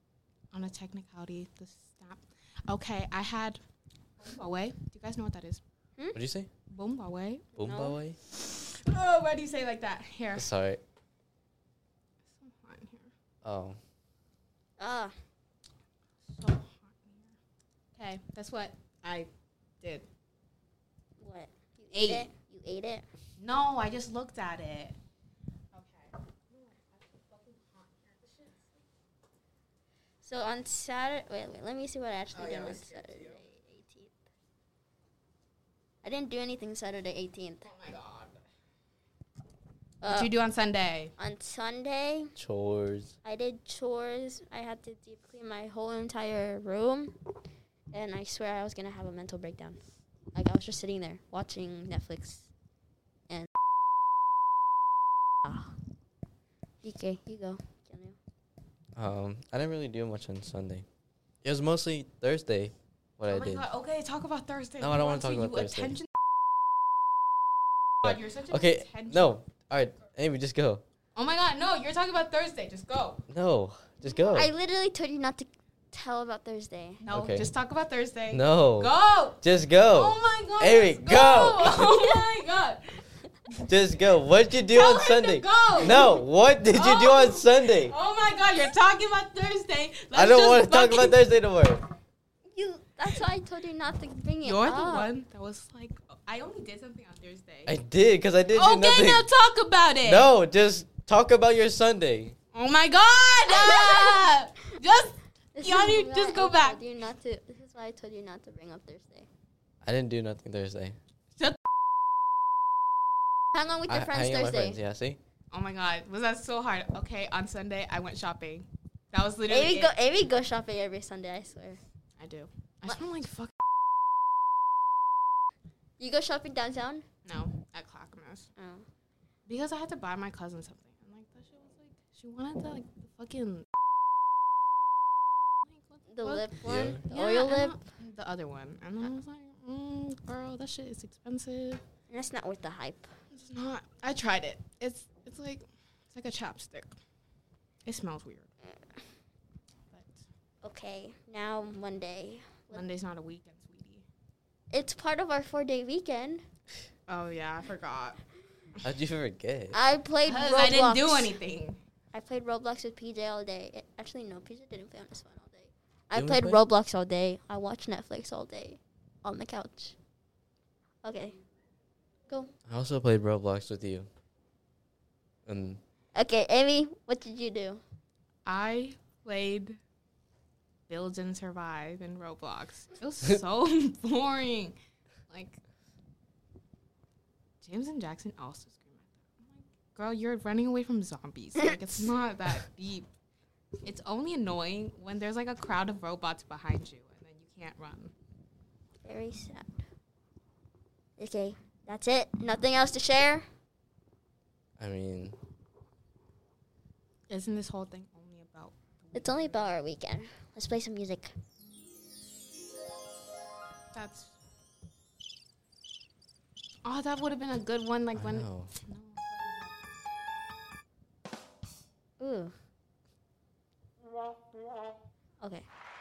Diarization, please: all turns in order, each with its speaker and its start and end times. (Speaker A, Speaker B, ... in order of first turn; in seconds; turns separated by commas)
Speaker A: 0.5-3.6, Speaker A: 4.2-5.6, Speaker B: 6.1-6.5, Speaker A: 6.7-7.5, Speaker B: 7.5-8.2, Speaker C: 7.6-8.0, Speaker A: 8.3-10.5, Speaker B: 10.3-10.8, Speaker A: 12.3-13.1, Speaker B: 13.4-13.8, Speaker C: 14.8-15.1, Speaker A: 16.2-17.4, Speaker A: 17.9-19.3, Speaker A: 19.8-20.1, Speaker C: 21.2-23.1, Speaker A: 21.9-22.3, Speaker A: 23.4-25.0, Speaker A: 25.7-28.8, Speaker C: 30.2-34.1, Speaker A: 32.3-33.4, Speaker C: 36.0-37.7, Speaker A: 37.6-38.4, Speaker C: 40.0-40.3, Speaker A: 40.0-41.1, Speaker C: 41.2-42.3, Speaker B: 42.4-43.1, Speaker C: 43.2-47.1, Speaker C: 47.9-49.8, Speaker C: 50.3-52.5, Speaker C: 55.4-55.7, Speaker C: 56.8-58.2, Speaker B: 58.9-60.9, Speaker B: 61.4-63.6, Speaker A: 63.3-66.1, Speaker B: 64.8-66.0, Speaker A: 68.0-69.4, Speaker B: 68.0-70.8, Speaker A: 71.1-73.2, Speaker B: 73.3-74.5, Speaker C: 74.3-77.0, Speaker A: 77.0-83.0, Speaker B: 77.1-77.5, Speaker B: 78.3-81.8, Speaker B: 83.7-87.9, Speaker A: 84.6-91.2, Speaker B: 90.1-91.8, Speaker C: 92.5-95.1, Speaker A: 94.4-97.8, Speaker B: 97.7-99.3, Speaker A: 98.5-100.3, Speaker B: 100.0-102.3, Speaker A: 102.5-106.8, Speaker C: 103.5-104.3, Speaker C: 105.5-109.3, Speaker B: 109.8-111.0, Speaker C: 113.5-114.8, Speaker B: 113.9-115.2, Speaker A: 115.5-119.9, Speaker C: 119.5-121.8, Speaker A: 122.2-123.5, Speaker C: 126.0-127.0, Speaker A: 127.2-128.5, Speaker C: 128.6-128.8, Speaker A: 129.5-133.7, Speaker A: 135.7-141.8, Speaker C: 136.1-137.8, Speaker B: 136.6-137.0, Speaker C: 142.1-143.1, Speaker A: 143.3-146.9, Speaker A: 147.8-148.5, Speaker A: 149.9-150.2, Speaker C: 150.6-152.8, Speaker A: 152.7-154.1, Speaker C: 154.7-156.4, Speaker A: 157.1-158.2, Speaker B: 158.8-159.8, Speaker C: 159.7-161.3, Speaker A: 160.2-161.8, Speaker C: 162.1-169.9, Speaker B: 166.1-166.6, Speaker C: 171.0-171.4, Speaker B: 172.7-174.1, Speaker B: 175.4-175.8, Speaker C: 176.1-177.8, Speaker A: 178.4-179.8, Speaker A: 180.9-184.8, Speaker A: 185.3-185.6, Speaker A: 187.6-193.1, Speaker A: 193.8-198.1, Speaker C: 199.0-199.8, Speaker C: 201.2-203.4, Speaker B: 204.8-205.4, Speaker A: 207.3-209.7, Speaker C: 209.1-211.3, Speaker A: 213.9-214.3, Speaker A: 216.8-219.9, Speaker B: 218.2-218.7, Speaker C: 222.2-222.5, Speaker C: 225.4-225.7